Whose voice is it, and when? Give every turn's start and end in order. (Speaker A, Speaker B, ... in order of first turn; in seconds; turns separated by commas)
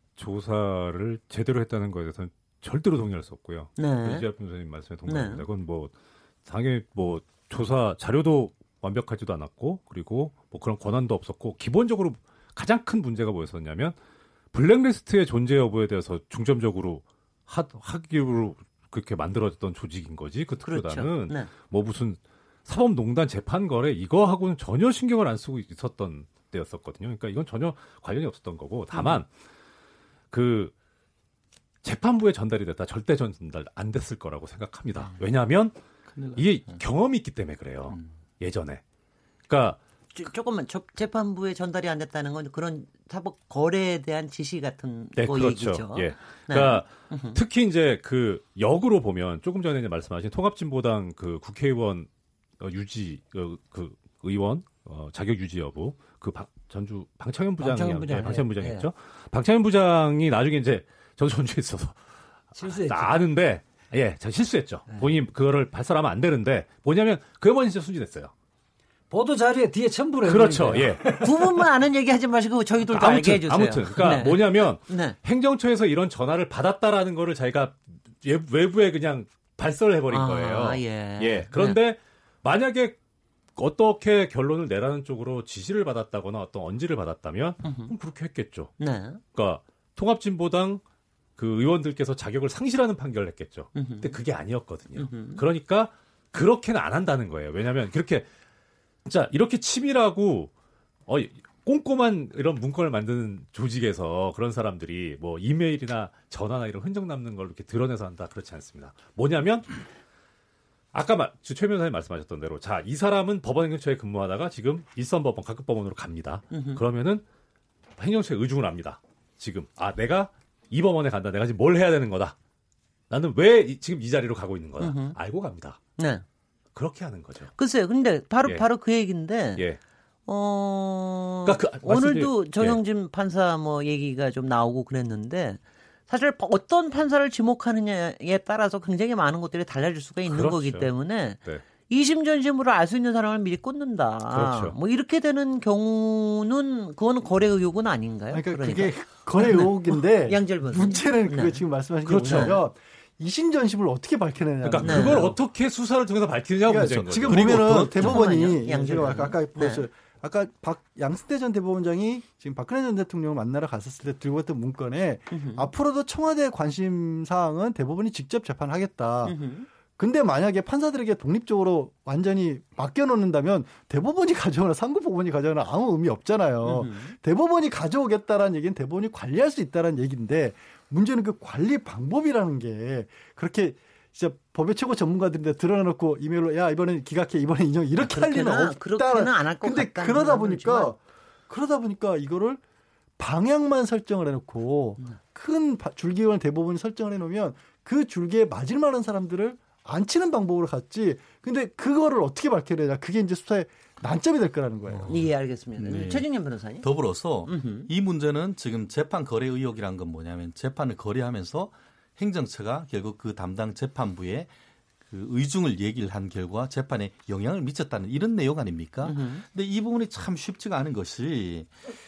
Speaker A: 0.2-5.9, Speaker B: 3.8-4.3, Speaker B: 5.1-5.4, Speaker A: 6.5-14.0, Speaker A: 14.5-29.3, Speaker B: 20.6-21.5, Speaker A: 30.3-30.7, Speaker A: 31.8-35.8, Speaker A: 36.3-38.8, Speaker A: 39.5-39.8, Speaker B: 40.1-47.4, Speaker A: 45.2-62.0, Speaker C: 57.6-58.9, Speaker C: 62.6-63.1, Speaker A: 62.6-68.3, Speaker C: 69.1-71.3, Speaker A: 70.2-71.3, Speaker B: 71.1-75.2, Speaker A: 72.9-83.0, Speaker B: 80.1-81.8, Speaker A: 83.6-88.7, Speaker B: 87.6-87.9, Speaker B: 88.8-89.2, Speaker A: 89.3-90.8, Speaker A: 91.4-98.3, Speaker B: 93.8-94.2, Speaker B: 95.0-95.4, Speaker A: 99.0-100.5, Speaker A: 101.1-109.7, Speaker A: 110.9-117.2, Speaker B: 116.5-116.8, Speaker A: 118.0-122.4, Speaker A: 123.1-125.8, Speaker B: 124.8-125.2, Speaker B: 126.0-126.2, Speaker A: 126.8-127.5, Speaker B: 127.6-129.7, Speaker B: 130.3-151.6, Speaker A: 131.5-132.8, Speaker A: 140.3-140.9, Speaker A: 144.3-144.8, Speaker D: 148.3-155.4, Speaker A: 152.1-152.5, Speaker B: 152.2-152.6, Speaker A: 154.6-158.0, Speaker B: 154.8-155.3, Speaker D: 156.7-169.4, Speaker E: 157.3-158.2, Speaker B: 158.0-159.9, Speaker B: 165.3-165.7, Speaker B: 169.2-169.7, Speaker D: 170.0-192.6, Speaker B: 176.6-177.2, Speaker B: 188.0-190.9, Speaker D: 193.2-205.3, Speaker B: 205.1-206.9, Speaker E: 205.8-206.2, Speaker E: 206.8-214.5, Speaker B: 207.4-207.9, Speaker E: 215.1-221.7, Speaker B: 219.1-219.4